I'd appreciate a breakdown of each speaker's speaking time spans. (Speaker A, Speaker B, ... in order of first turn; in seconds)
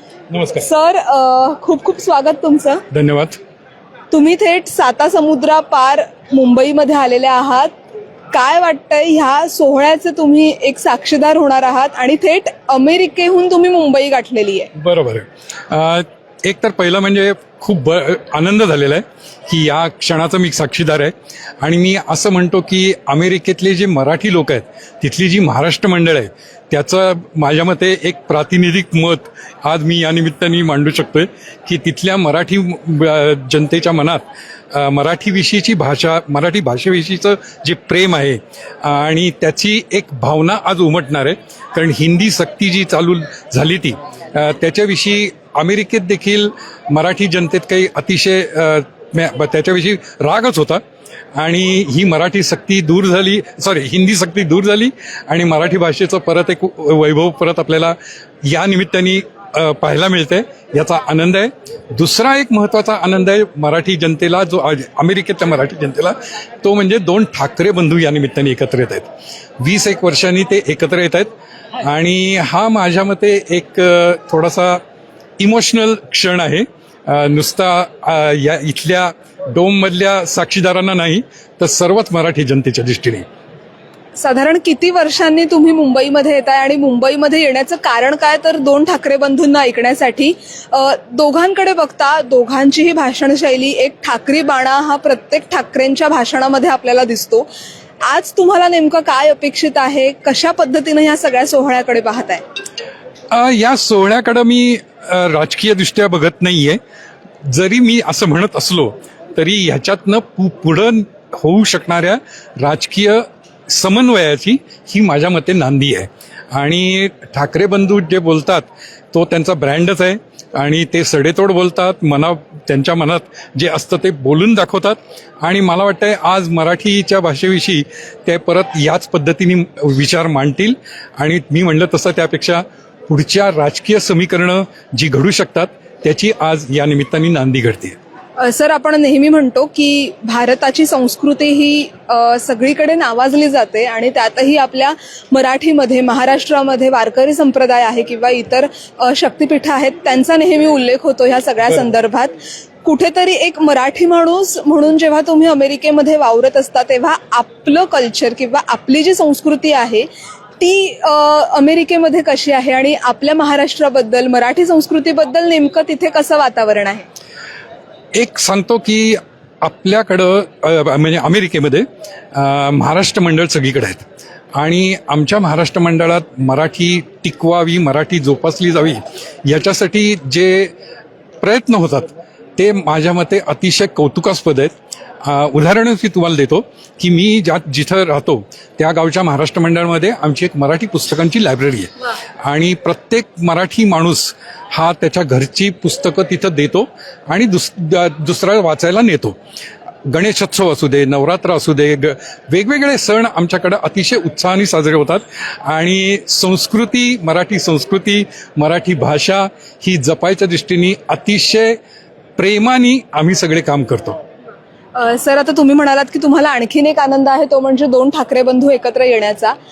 Speaker A: 0.3-0.7, 2.9-3.4, 14.8-50.8, 51.4-69.1, 69.6-74.8, 75.4-83.2, 103.3-106.8, 107.5-138.0, 168.2-174.0, 174.6-180.7, 181.4-199.4, 200.1-211.8, 212.4-214.2
Speaker B: 0.6-2.8, 4.1-7.8, 8.3-14.7, 84.2-97.5, 98.0-102.4, 138.4-160.1, 160.6-167.1, 215.0-219.6